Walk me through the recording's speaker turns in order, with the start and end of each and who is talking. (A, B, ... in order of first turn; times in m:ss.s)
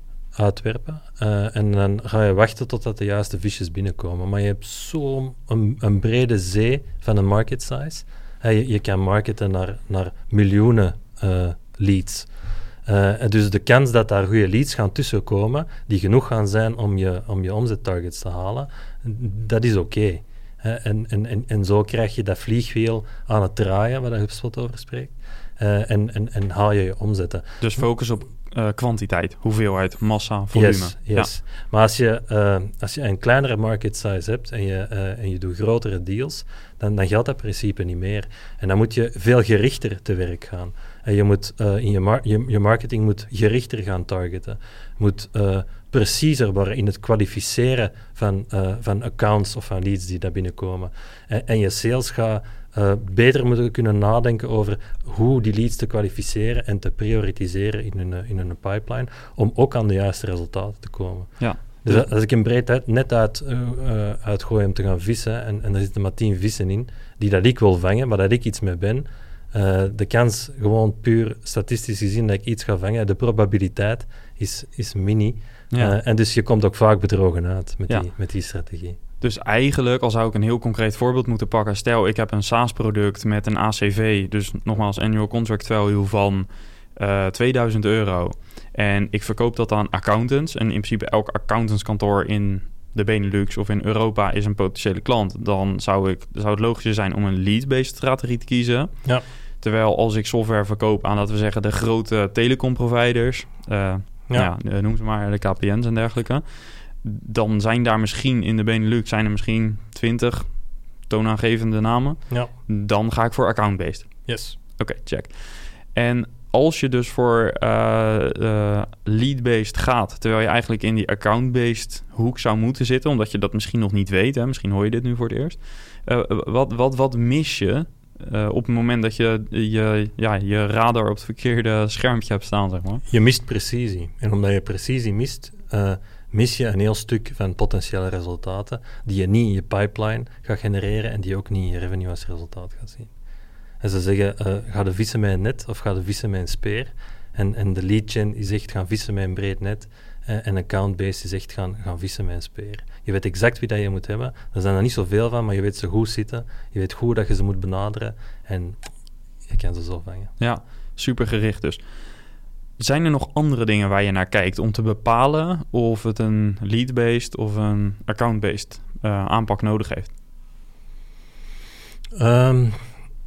0:00.4-0:12.3 A
0:12.8-0:27.4 A
0:27.6-0:31.3 B
0:30.5-1:19.0 A
1:01.4-1:02.1 B
1:19.2-1:39.0 B
1:39.6-1:50.5 B
1:51.1-2:13.0 B
1:54.3-1:54.6 A
2:13.1-2:23.1 A
2:23.8-2:38.8 A
2:39.5-2:40.3 A
2:40.4-2:41.8 B
2:42.8-2:50.1 B
2:52.2-2:52.8 A